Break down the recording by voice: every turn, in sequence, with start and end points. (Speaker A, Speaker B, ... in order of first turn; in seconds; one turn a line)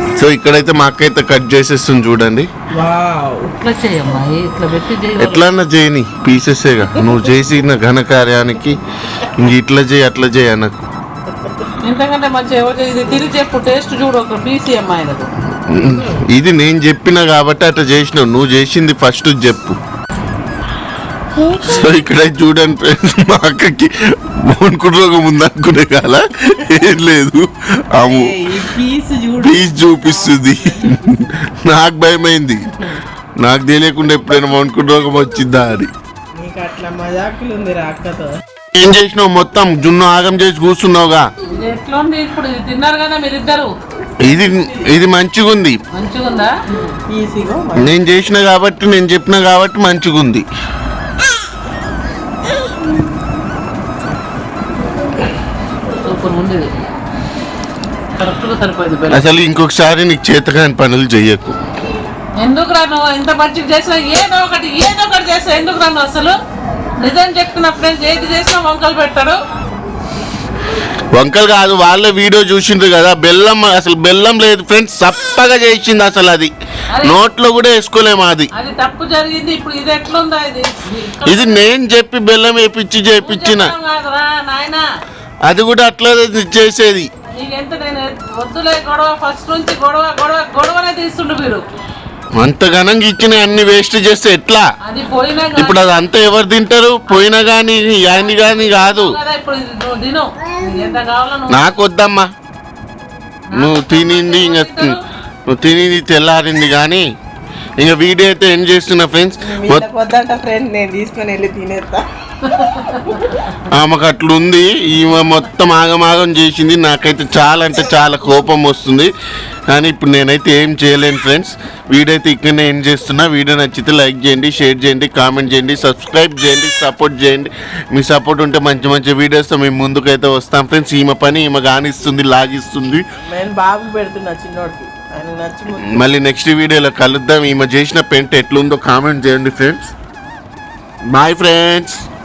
Speaker A: 0.1-2.5
Speaker B: 2.7-3.6
Speaker C: 3.6-5.4
Speaker A: 5.2-10.8
Speaker B: 7.0-7.2
Speaker C: 11.8-15.3
Speaker A: 15.7-19.8
Speaker C: 21.4-21.9
Speaker A: 21.6-28.4
Speaker B: 28.1-31.1
Speaker A: 29.4-32.7
Speaker A: 33.4-35.9
Speaker B: 36.3-38.4
Speaker A: 38.7-41.2
Speaker C: 41.5-43.7
Speaker A: 44.2-45.8
Speaker C: 45.9-46.5
Speaker B: 46.7-47.9
Speaker A: 47.8-50.4
Speaker C: 56.0-56.7
Speaker C: 58.2-59.2
Speaker A: 59.1-61.5
Speaker C: 62.4-66.4
Speaker C: 67.0-69.4
Speaker A: 71.1-78.5
Speaker C: 76.9-77.2
Speaker C: 78.5-81.6
Speaker A: 81.2-83.7
Speaker C: 83.1-84.8
Speaker A: 85.4-87.1
Speaker C: 87.3-91.7
Speaker A: 92.3-94.7
Speaker C: 94.8-95.8
Speaker A: 95.5-99.2
Speaker C: 97.1-101.6
Speaker A: 101.5-102.3
Speaker C: 103.5-105.0
Speaker A: 103.5-105.0
Speaker A: 105.5-107.0
Speaker A: 107.8-109.8
Speaker B: 109.4-112.0
Speaker B: 112.6-113.2
Speaker C: 112.7-113.1
Speaker A: 113.6-119.1
Speaker A: 119.7-133.0
Speaker B: 133.2-136.1
Speaker A: 135.8-139.9
Speaker A: 141.1-142.1